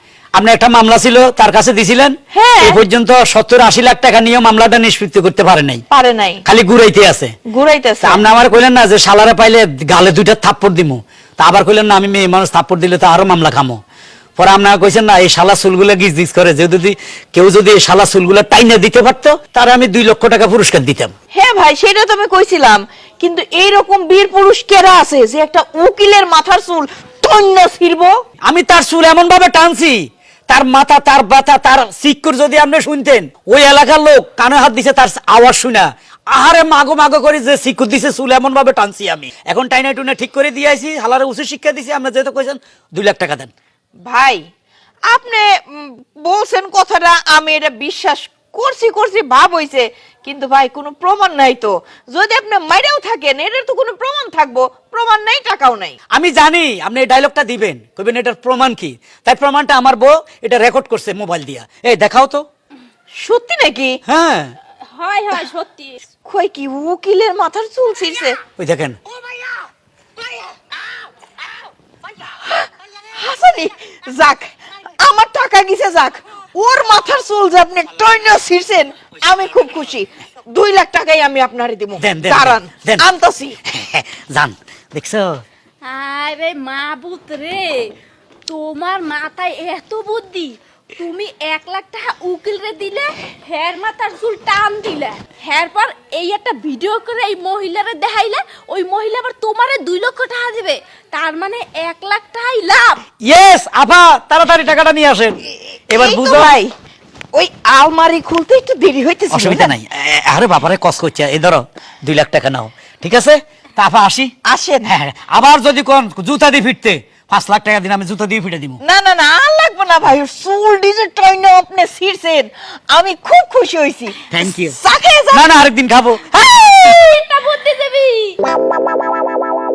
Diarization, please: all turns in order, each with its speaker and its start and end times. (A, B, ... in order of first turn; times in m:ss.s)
0:00.3-0:05.8 A
0:02.3-0:02.8 B
0:05.9-0:06.4 B
0:06.4-0:07.3 A
0:07.5-0:08.2 B
0:08.0-0:13.8 A
0:14.4-0:21.1 A
0:21.3-0:28.1 B
0:28.4-0:43.5 A
0:44.1-0:44.4 B
0:45.1-0:56.0 B
0:56.1-1:02.4 A
1:03.2-1:04.0 B
1:04.0-1:04.5 A
1:04.9-1:06.0 C
1:06.2-1:08.4 B
1:08.6-1:09.0 A
1:12.4-1:23.6 B
1:22.0-1:23.0 A
1:23.6-1:25.4 A
1:25.8-1:27.9 C
1:28.5-1:43.0 C
1:43.2-1:45.4 A
1:45.9-1:46.6 A
1:45.9-1:46.7 B
1:47.3-1:49.7 B
1:49.3-1:54.3 A
1:54.4-1:54.9 B
1:54.8-1:58.8 A
1:58.8-2:05.5 B
2:04.3-2:04.7 A
2:05.3-2:06.3 A
2:06.3-2:07.4 B
2:06.8-2:08.4 C